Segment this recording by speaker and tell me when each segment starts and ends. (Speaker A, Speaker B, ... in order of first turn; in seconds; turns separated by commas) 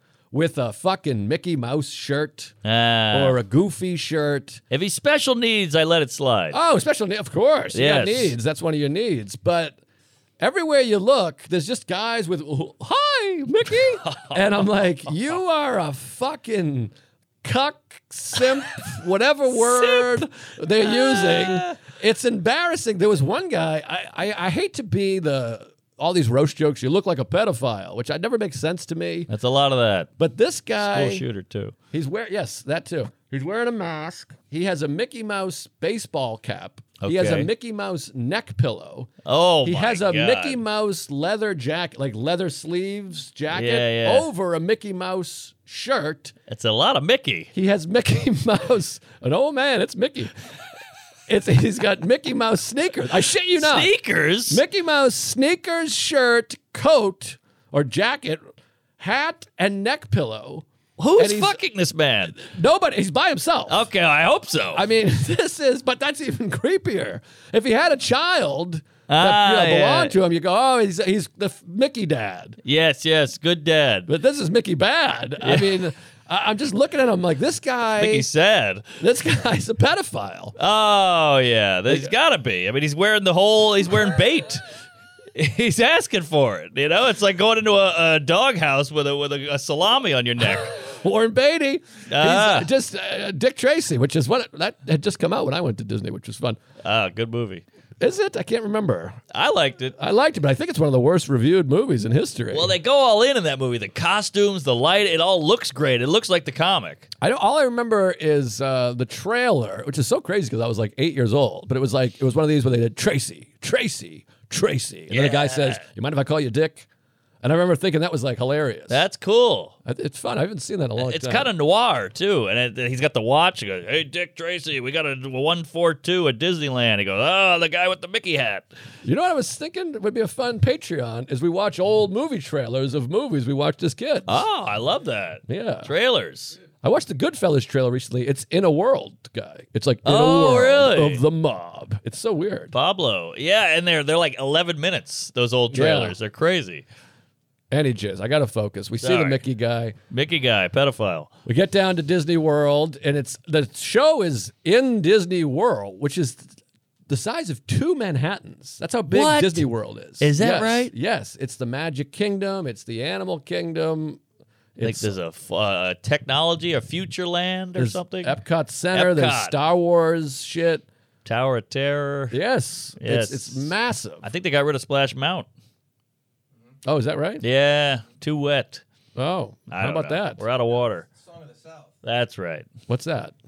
Speaker A: 0.3-2.5, Speaker B: 2.6-3.4, Speaker A: 3.1-4.6, Speaker B: 4.7-6.6, Speaker A: 6.5-9.8, Speaker B: 7.7-8.4, Speaker A: 10.4-29.3, Speaker B: 14.0-14.4, Speaker B: 19.6-20.2, Speaker B: 20.8-21.8, Speaker B: 29.3-30.1, Speaker A: 30.2-31.2, Speaker B: 30.8-31.7, Speaker A: 31.9-39.1, Speaker B: 37.0-37.5, Speaker B: 39.2-40.6, Speaker A: 39.6-46.3, Speaker B: 43.5-44.3, Speaker B: 46.5-47.5, Speaker A: 47.5-50.3, Speaker A: 51.3-53.9, Speaker B: 53.6-54.6, Speaker A: 54.5-58.4, Speaker A: 59.0-60.7, Speaker B: 61.0-62.4, Speaker A: 61.2-61.6, Speaker A: 62.4-63.9, Speaker B: 63.7-64.8, Speaker A: 64.7-72.6, Speaker B: 69.1-70.1, Speaker B: 72.6-74.1, Speaker A: 74.1-78.3, Speaker B: 75.4-75.8, Speaker B: 78.0-78.9, Speaker A: 79.0-80.5, Speaker B: 80.6-84.6, Speaker B: 85.3-90.7, Speaker A: 90.8-96.6, Speaker B: 92.1-92.7, Speaker B: 96.8-97.7, Speaker A: 98.0-99.2, Speaker B: 99.3-100.0, Speaker A: 100.0-102.7, Speaker B: 102.5-107.1, Speaker A: 107.2-116.9, Speaker B: 115.1-115.8, Speaker A: 117.4-119.0, Speaker B: 118.9-119.8, Speaker A: 119.8-121.5, Speaker B: 121.0-128.7, Speaker A: 129.0-134.4, Speaker B: 134.3-136.6, Speaker A: 135.5-135.9, Speaker A: 136.8-142.7, Speaker B: 140.1-141.2, Speaker B: 142.7-146.8, Speaker A: 145.7-146.2, Speaker A: 147.7-149.9, Speaker B: 149.0-149.4, Speaker B: 150.1-151.3, Speaker A: 151.4-156.5, Speaker A: 157.1-164.2, Speaker B: 159.1-159.7, Speaker B: 160.2-160.9, Speaker A: 164.8-165.2, Speaker B: 164.8-168.3, Speaker A: 167.8-170.8, Speaker B: 168.9-169.6, Speaker B: 171.2-172.4, Speaker A: 172.3-174.3, Speaker B: 173.0-173.7, Speaker B: 174.2-175.5, Speaker A: 176.8-177.4, Speaker B: 177.4-178.8, Speaker A: 179.2-180.4, Speaker B: 179.7-181.1, Speaker B: 182.0-182.7, Speaker A: 182.9-183.3